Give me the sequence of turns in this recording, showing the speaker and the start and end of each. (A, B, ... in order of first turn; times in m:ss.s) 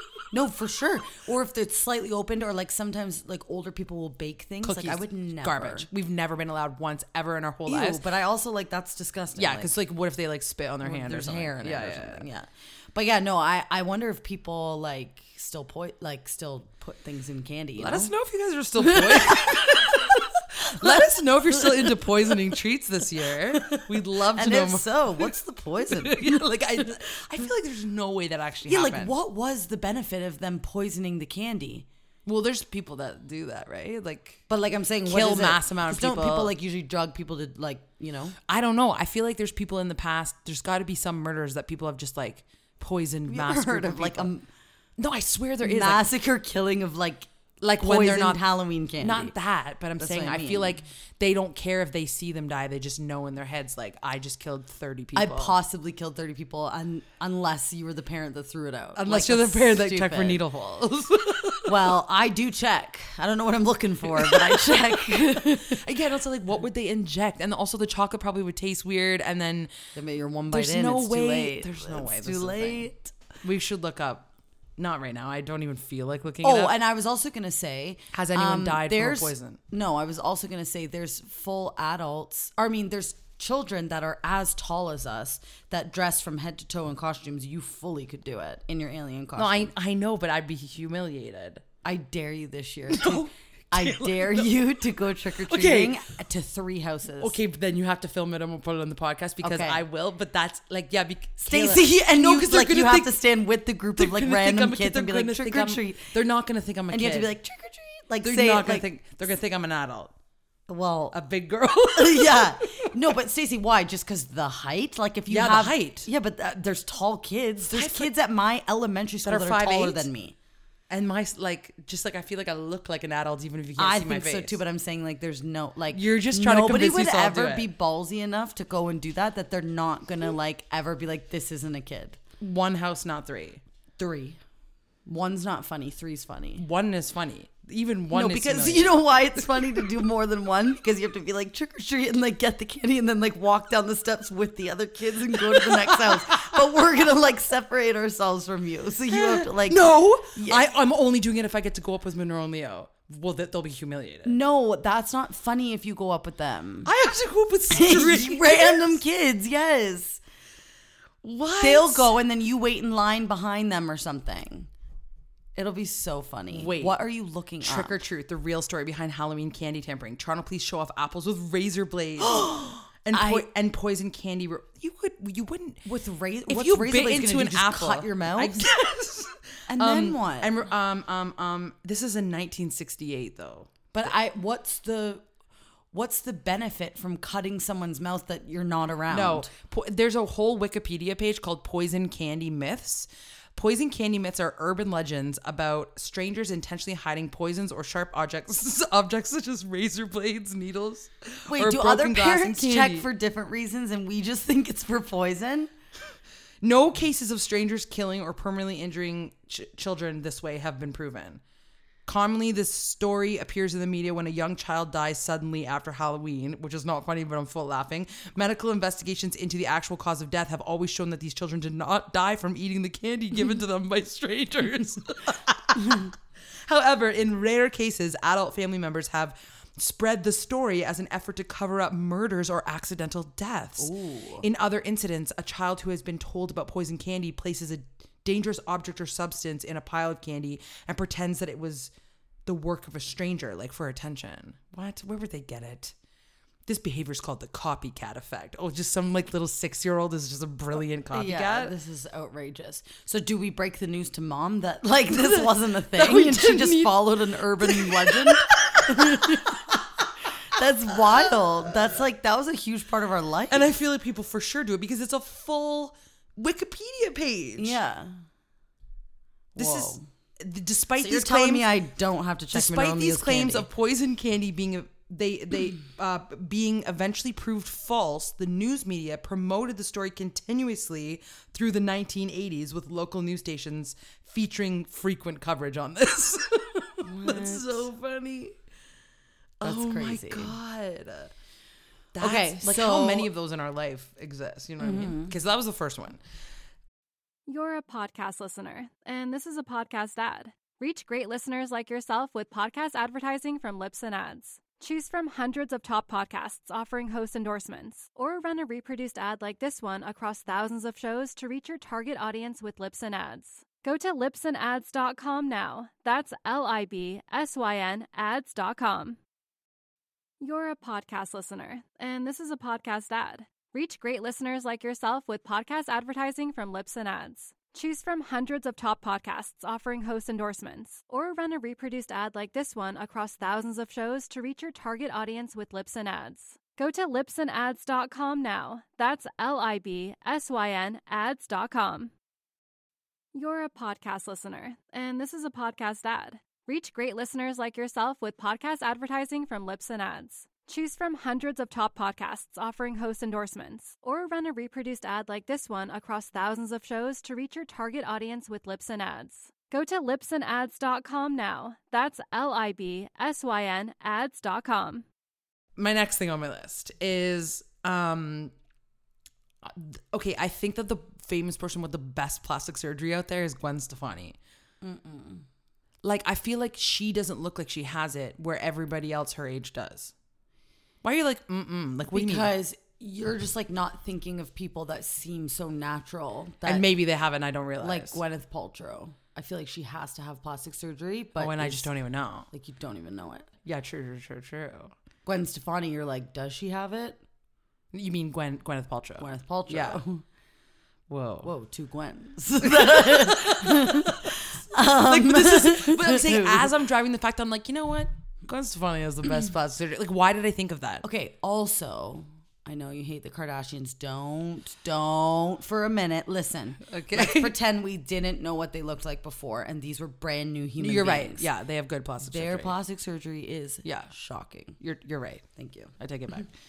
0:00.3-0:05.9 A
0:04.6-0:08.0 B
0:07.7-0:09.8 A
0:09.4-0:12.3 B
0:10.8-0:18.1 A
0:17.8-0:25.3 B
0:18.8-0:22.3 A
0:23.5-0:26.8 A
0:25.9-0:29.2 B
0:28.7-0:31.9 A
0:32.3-0:34.4 B
0:34.5-0:38.4 A
0:35.1-0:36.5 B
0:38.5-0:44.3 B
0:43.3-0:44.5 A
0:45.0-0:46.1 B
0:45.6-0:47.3 A
0:47.6-0:48.4 B
0:47.8-0:49.3 A
0:49.0-0:55.6 B
0:50.0-0:50.8 A
0:55.2-1:00.4 A
0:59.0-1:01.8 B
1:01.6-1:05.8 A
1:04.1-1:09.7 B
1:10.0-1:13.1 A
1:10.5-1:12.9 B
1:13.4-1:16.8 B
1:16.4-1:29.7 A
1:18.1-1:19.6 B
1:29.4-1:31.6 B
1:31.8-1:37.4 A
1:32.9-1:34.7 B
1:35.4-1:36.0 B
1:37.2-1:43.2 B
1:39.4-1:39.8 A
1:41.4-1:46.1 A
1:44.0-1:47.3 B
1:46.9-1:48.9 A
1:48.2-1:50.1 B
1:50.7-1:51.2 A
1:51.1-1:52.9 B
1:51.9-2:00.4 A
1:55.3-1:56.1 B
1:57.7-1:58.1 B
1:59.2-2:00.1 B
2:00.9-2:04.6 B
2:03.8-2:12.2 A
2:05.9-2:07.7 B
2:12.4-2:13.6 B
2:14.0-2:14.4 A
2:15.1-2:16.6 A
2:16.6-2:19.0 B
2:18.1-2:30.7 A
2:25.6-2:26.2 B
2:29.1-2:34.4 B
2:34.2-2:36.9 A
2:36.8-2:39.0 B
2:37.7-2:40.2 A
2:41.2-2:42.1 B
2:41.6-2:44.7 A
2:45.6-2:48.0 A
2:46.5-2:47.0 B
2:47.6-2:55.8 B
2:52.2-2:53.5 A
2:55.8-2:58.7 A
2:56.5-3:03.7 B
2:59.7-3:00.6 A
3:03.9-3:05.2 A
3:05.9-3:09.5 A
3:09.1-3:23.1 B
3:21.5-3:25.7 A
3:26.6-3:31.4 B
3:32.1-3:46.2 B
3:46.7-4:01.9 B
3:53.8-3:54.5 A
4:02.5-4:06.0 B
4:06.7-4:11.7 B
4:11.1-4:19.6 A
4:15.2-4:19.6 B
4:20.4-4:23.7 A
4:23.5-4:27.8 B
4:27.6-4:28.2 A
4:29.6-4:30.0 A
4:29.6-4:31.7 B
4:31.0-4:33.7 A
4:32.5-4:48.6 B
4:47.0-4:47.9 A
4:49.6-4:51.3 B
4:49.6-4:50.6 A
4:52.2-4:56.2 B
4:52.2-4:53.3 A
4:54.8-4:55.3 A
4:57.5-5:19.2 C
5:20.4-5:42.1 C
5:43.3-6:05.0 C
6:05.8-6:08.5 B
6:09.6-6:14.4 B
6:14.8-6:15.4 A
6:16.0-6:20.1 B
6:21.0-6:22.5 B
6:22.1-6:26.9 A
6:26.6-6:28.2 B
6:27.8-6:31.9 A
6:31.4-6:32.5 B
6:32.5-6:33.5 A
6:33.6-6:34.9 B
6:35.2-6:37.2 A
6:37.9-6:40.0 B
6:39.2-6:40.2 A
6:41.1-6:41.5 B
6:41.4-6:46.7 A
6:42.6-6:51.0 B
6:51.0-7:01.5 A
6:56.9-6:57.6 B
7:00.8-7:02.8 B
7:02.2-7:04.8 A
7:03.8-7:04.1 B
7:04.8-7:05.5 B
7:05.6-7:05.9 A
7:06.0-7:06.5 B